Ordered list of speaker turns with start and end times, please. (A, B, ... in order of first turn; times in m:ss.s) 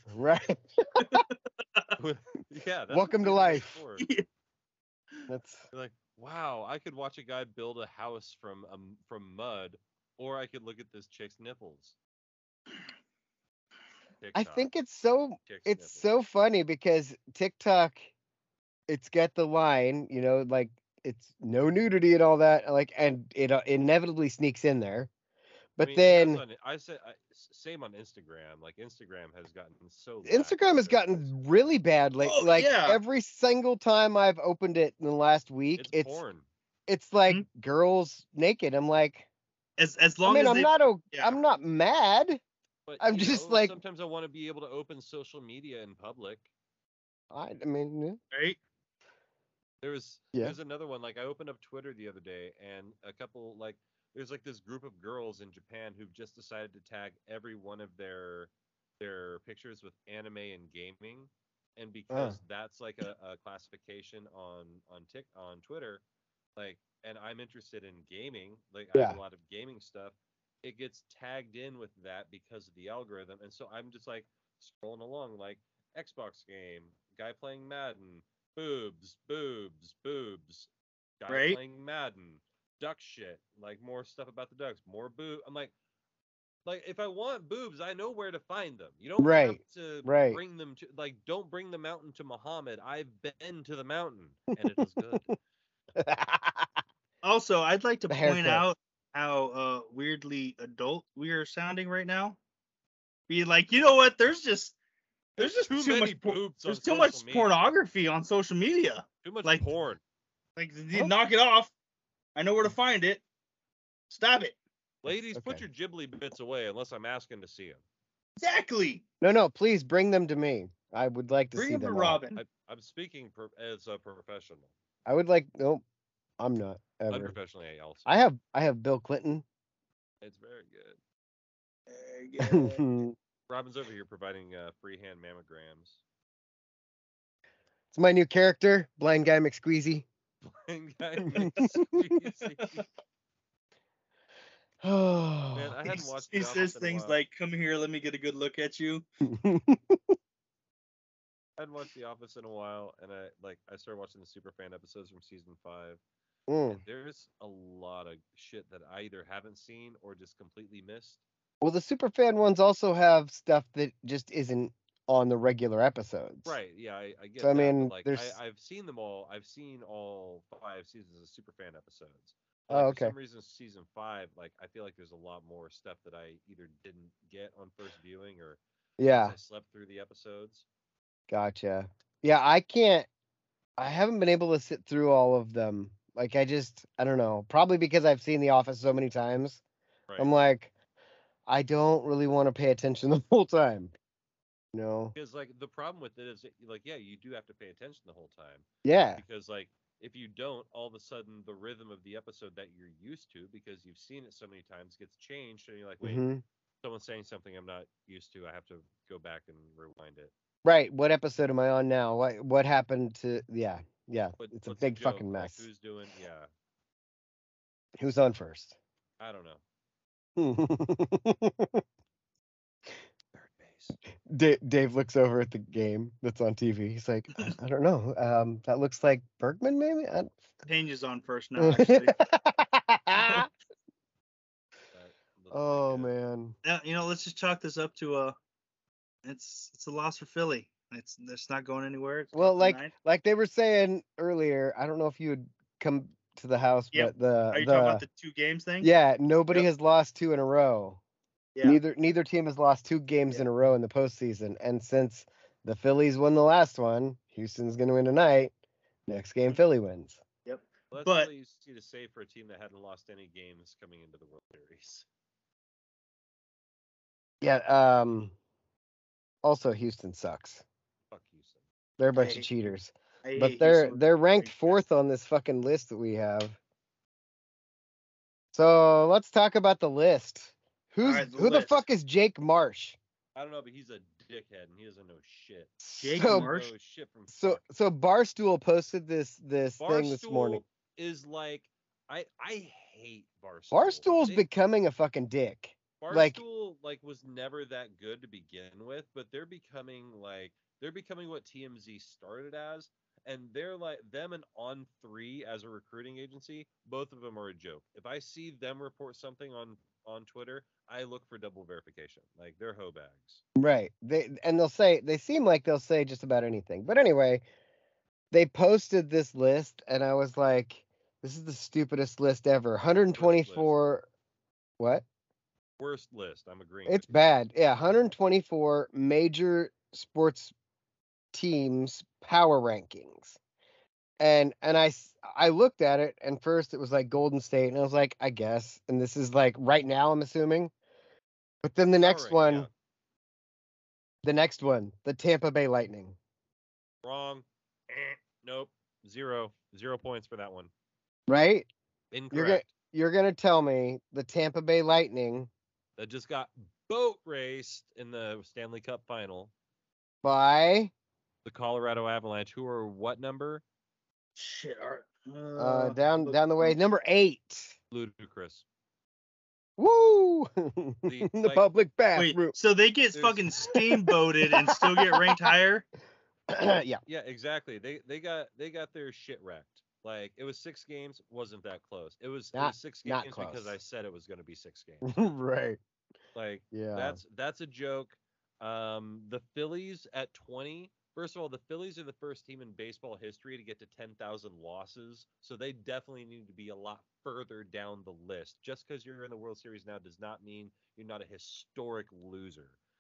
0:00.1-0:01.2 A
0:01.0-0:02.0 B
0:02.0-0:04.0 C
0:02.9-0:03.8 A
0:05.3-0:05.7 A
0:05.7-0:12.0 C
0:14.2-0:14.7 C
0:14.3-0:18.1 A
0:15.5-0:16.0 C
0:18.9-0:25.1 A
0:25.8-0:26.4 A
0:25.8-0:31.4 C
0:30.2-0:36.2 A
0:32.2-0:33.0 B
0:35.8-0:36.5 C
0:36.9-0:39.3 A
0:39.8-0:41.4 B
0:40.2-0:42.4 A
0:42.9-0:46.5 C
0:43.0-0:43.8 A
0:47.3-0:48.2 A
0:48.3-0:48.6 B
0:49.8-1:06.0 C
1:02.1-1:02.4 A
1:06.6-1:20.7 C
1:09.0-1:09.2 A
1:21.2-1:25.7 C
1:21.3-1:21.6 B
1:26.7-1:35.3 C
1:29.2-1:30.4 A
1:34.8-1:35.4 A
1:36.0-1:36.8 A
1:37.2-1:42.4 B
1:38.1-1:38.6 A
1:43.3-1:44.8 B
1:45.4-1:49.7 B
1:45.4-1:47.7 C
1:49.2-1:50.0 C
1:50.6-1:51.7 B
1:52.4-1:53.2 B
1:54.1-1:54.6 B
1:55.0-1:57.8 C
1:55.1-1:55.6 A
1:58.4-1:59.0 B
1:59.2-2:02.2 A
2:01.6-2:02.4 B
2:02.3-2:04.7 C
2:05.1-2:05.8 A
2:06.4-2:07.4 A
2:07.1-2:08.1 C
2:08.1-2:09.4 A
2:10.2-2:11.0 C
2:11.9-2:12.8 B
2:12.4-2:13.2 A
2:13.5-2:16.0 C
2:17.9-2:20.1 A
2:20.4-2:22.8 C
2:21.2-2:22.0 A
2:24.8-2:25.8 A
2:25.6-2:27.2 C
2:25.9-2:29.0 B
2:29.2-2:30.2 A
2:31.6-2:36.0 C
2:36.5-2:36.8 A
2:36.7-2:41.2 C
2:41.6-2:46.6 A
2:46.4-3:00.7 C
2:47.4-2:48.4 A
2:52.7-2:53.1 A
2:59.0-2:59.4 A
3:01.3-3:03.1 A
3:03.8-3:09.6 A
3:10.1-3:10.3 C
3:10.2-3:10.7 A
3:11.5-3:13.9 A
3:14.7-3:15.1 A
3:15.2-3:26.2 C
3:18.8-3:19.2 A
3:26.0-3:26.4 A
3:26.8-3:30.3 C
3:30.6-3:35.6 A
3:34.4-3:36.5 C
3:38.0-3:38.8 A
3:39.2-3:39.6 C
3:40.4-3:41.8 A
3:43.3-3:44.0 C
3:44.3-3:50.3 A
3:50.7-3:52.2 B
3:51.6-3:53.5 A
3:53.2-3:53.5 B
3:54.9-3:56.1 C
3:55.5-3:56.6 A
3:56.6-3:58.4 B
3:59.2-4:02.9 B
4:02.3-4:08.0 A
4:06.9-4:08.9 B
4:08.8-4:11.0 A
4:11.6-4:18.5 A
4:19.1-4:20.2 A
4:20.5-4:21.3 B
4:20.9-4:25.1 C
4:27.4-4:28.4 A
4:29.4-4:30.6 A
4:31.1-4:31.6 C
4:32.0-4:36.6 A
4:32.1-4:32.5 B
4:33.2-4:34.8 B
4:38.5-4:43.0 A
4:41.0-4:41.8 B
4:43.4-4:47.6 C
4:45.8-4:46.5 A
4:46.0-4:46.7 B
4:47.3-4:50.6 A
4:49.8-4:54.4 C
4:53.7-4:56.4 A
4:56.0-5:13.4 C
5:13.6-5:17.4 A
5:18.3-5:24.1 A
5:22.8-5:23.8 C
5:24.8-5:25.0 A
5:25.8-5:27.1 C
5:26.9-5:30.5 A
5:31.3-5:33.4 A
5:34.2-5:40.7 A
5:41.6-5:42.7 A
5:42.0-5:42.7 C
5:44.2-5:46.2 A
5:47.0-5:50.7 C
5:51.3-5:51.7 A
5:52.1-5:52.7 C
5:52.3-5:55.5 A
5:56.0-5:59.5 C
6:00.2-6:00.9 A
6:01.4-6:03.6 C
6:04.4-6:06.8 B
6:05.6-6:07.8 A
6:07.9-6:08.6 C
6:09.8-6:12.6 A
6:11.1-6:11.7 C
6:12.2-6:15.9 B
6:13.1-6:13.5 C
6:13.7-6:15.6 A
6:16.5-6:17.0 A
6:17.1-6:25.1 C
6:22.5-6:23.8 A
6:25.0-6:25.8 A
6:26.4-6:42.8 C
6:26.7-6:27.2 A